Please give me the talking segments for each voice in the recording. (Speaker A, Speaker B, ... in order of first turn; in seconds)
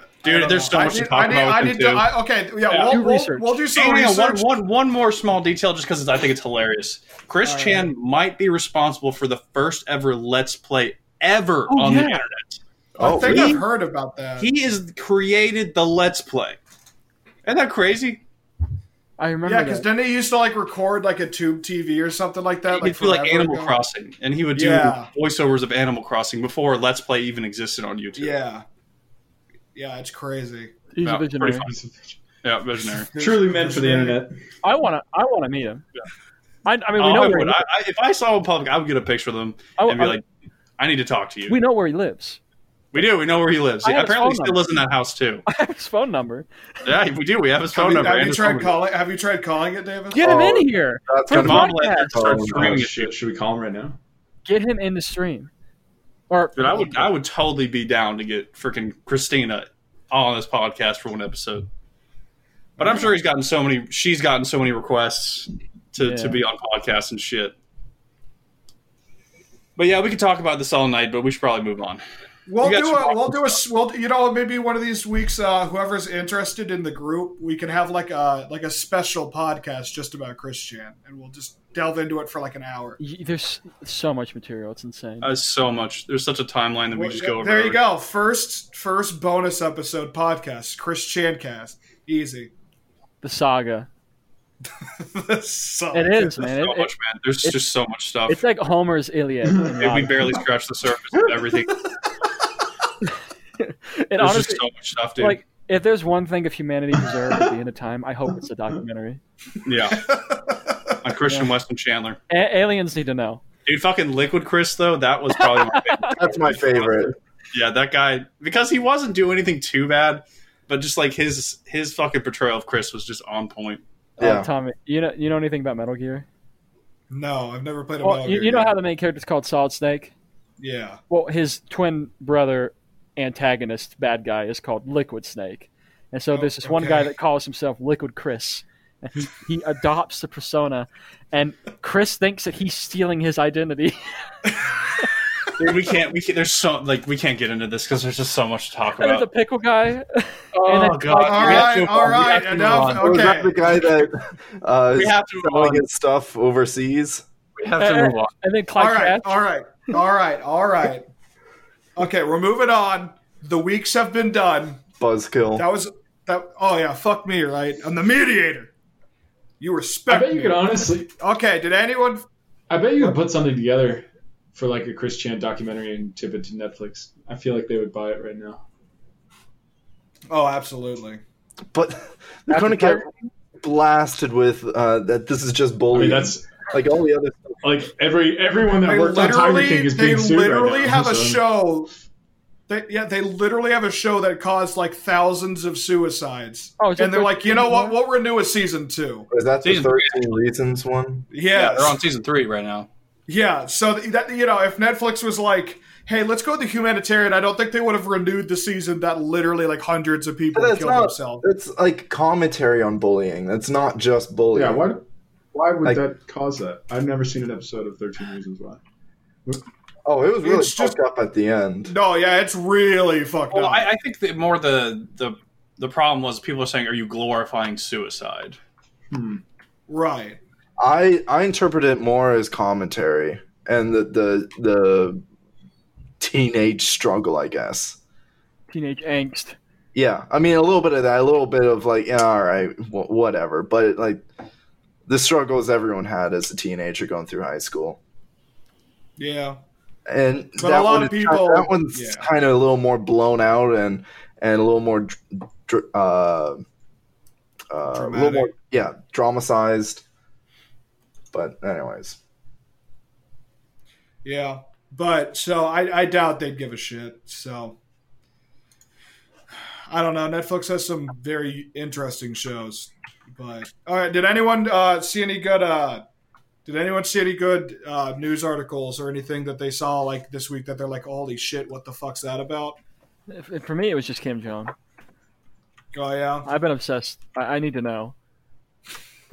Speaker A: 0.2-2.1, 2.7-3.0, 3.7-13.6, 14.4-16.6, 17.4-18.2, 22.7-28.4, 31.0-31.8, 32.4-33.1, 37.0-40.2, 40.8-41.6, 42.9-45.4, 46.8-48.8, 51.3-53.1, 56.6-61.7, 62.8-67.5, 69.8-72.0, 72.6-73.6, 85.2-87.8, 96.4-98.4, 99.8-101.9, 104.2-105.4, 109.6-110.1, 111.0-112.2, 113.6-123.8, 145.5-149.3, 150.5-153.4, 154.9-155.8, 157.6-158.3, 199.6-200.2, 201.5-202.9, 223.5-228.6
Speaker B: 0.2-4.4, 7.4-7.9, 13.0-14.5, 19.4-23.8, 24.5-25.1, 28.2-28.6, 29.7-30.7, 33.1-34.2, 47.7-50.2, 72.5-83.0, 86.9-92.5, 95.0-96.4, 110.0-110.7, 127.1-128.7, 130.6-131.0, 136.3-137.1, 151.1-153.8, 158.8-161.1, 161.9-164.8, 165.5-168.7, 169.6-172.2, 180.3-181.2, 188.8-191.9, 192.7-199.3, 201.3-202.0, 203.3-211.4, 220.4-220.9, 221.8-223.9, 229.9-230.4, 249.2-249.6, 250.6-252.2, 257.9-258.5, 264.2-267.8, 269.9-276.0, 276.6-282.8, 285.9-286.5
Speaker C: 2.7-3.6, 11.7-12.2, 19.2-19.9, 30.9-31.7, 34.6-35.8, 36.6-37.6, 39.8-40.2, 41.5-42.4, 43.8-44.6, 45.5-46.5, 50.1-52.2, 54.4-55.5, 56.3-57.1, 66.0-66.4, 83.0-85.3, 93.2-93.9, 95.9-96.9, 98.3-100.3, 103.0-104.6, 105.2-109.2, 112.3-113.4, 115.4-116.2, 124.2-126.2, 128.0-130.1, 131.1-144.5, 149.0-152.2, 157.8-159.4, 182.5-183.1, 196.8-198.0, 238.7-239.6, 283.3-284.7, 286.4-288.1
Speaker D: 13.0-13.6, 50.2-52.8, 116.1-117.1, 124.2-124.5, 153.0-157.2, 165.0-165.7, 181.7-187.6, 199.3-201.3, 210.5-214.8, 220.0-221.9, 230.8-235.2, 236.2-238.0, 239.9-244.2, 245.1-248.0, 250.1-256.6, 257.7-260.0, 261.3-262.2
Speaker E: 31.7-32.1, 33.1-34.4, 52.4-54.0, 170.1-171.1, 172.7-178.6, 185.9-186.4, 187.6-191.4, 214.5-215.0, 215.5-218.8, 229.1-229.4